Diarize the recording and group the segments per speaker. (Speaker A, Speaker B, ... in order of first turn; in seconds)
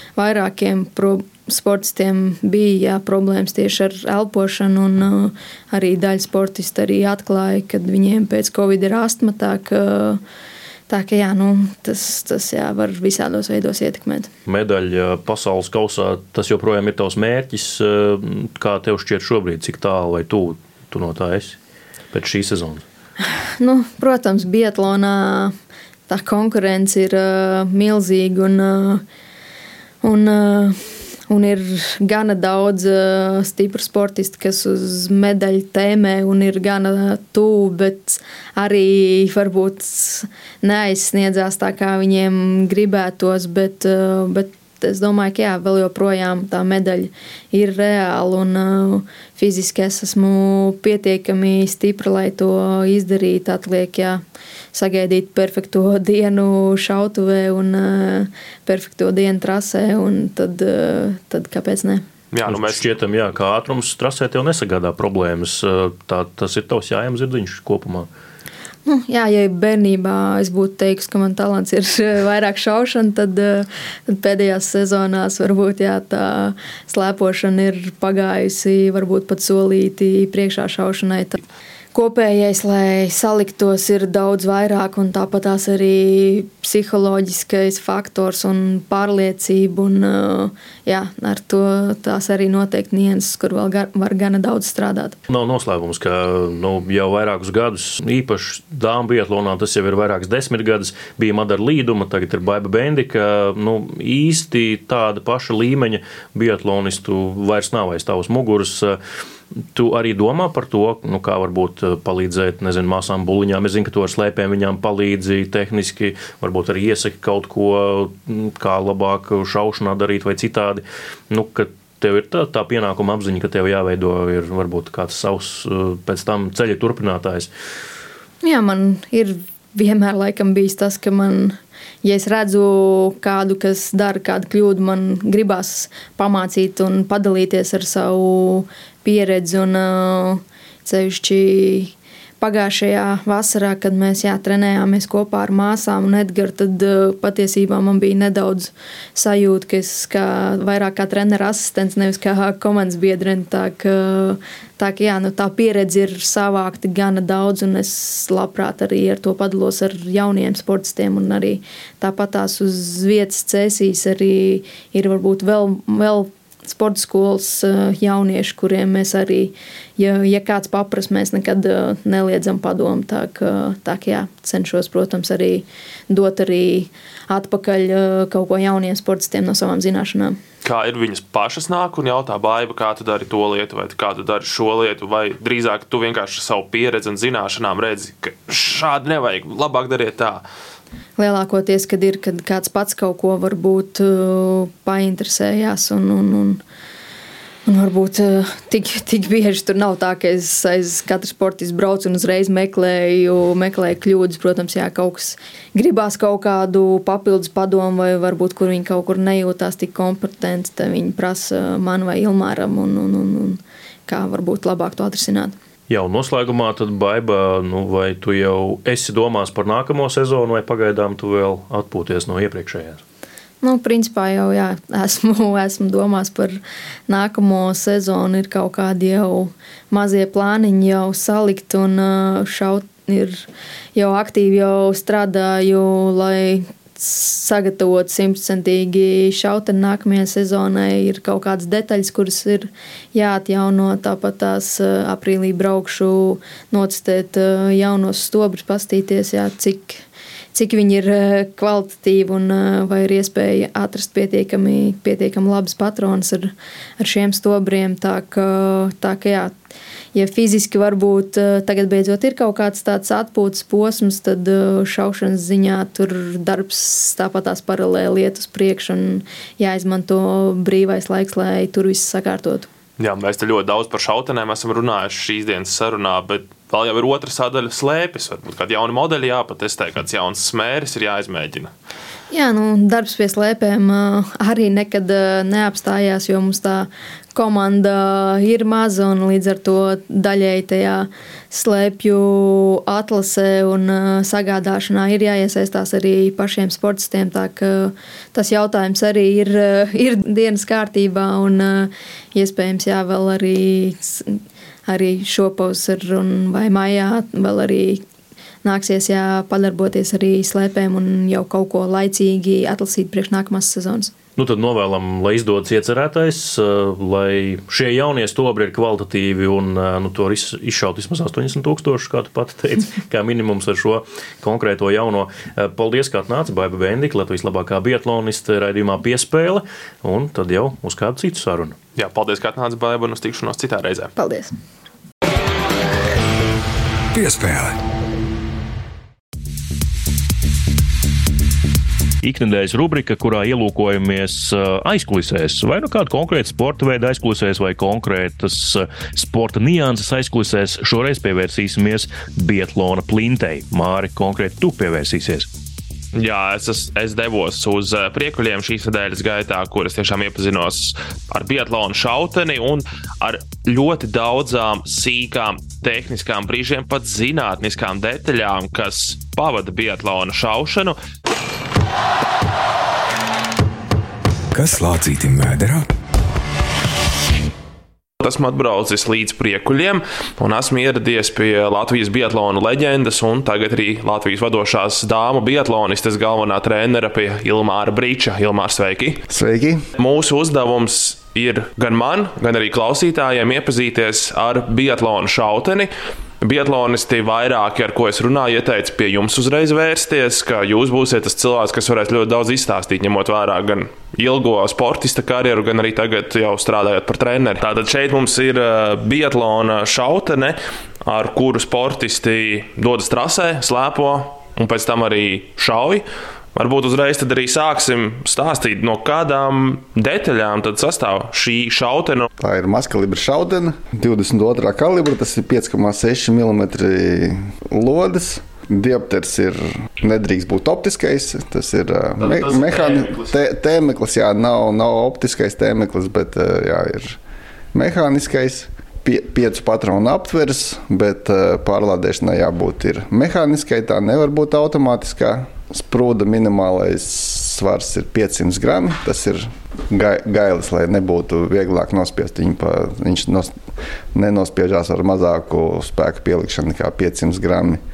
Speaker A: 0.1-10.2, 10.9-14.3, 23.6-25.5, 26.1-29.0, 30.0-54.2, 54.7-62.0, 68.8-81.4, 81.9-95.2, 128.4-180.4, 191.2-196.6, 197.7-215.5, 223.6-250.0, 250.5-259.5, 260.1-272.7, 282.3-308.0, 308.6-314.1, 334.1-334.5
Speaker B: 14.4-21.6, 22.1-22.8, 62.5-68.1, 95.3-109.0, 109.6-127.5, 215.9-223.0, 314.4-331.8, 342.2-355.5
Speaker C: 62.3-62.9, 180.6-190.4, 273.0-281.7, 331.9-334.1, 356.1-371.0, 378.2-389.2, 390.0-416.0, 416.5-422.3, 432.2-433.3
Speaker D: 337.1-337.8, 374.5-375.9
Speaker E: 389.3-389.8, 422.4-437.2, 437.7-453.5, 454.1-457.8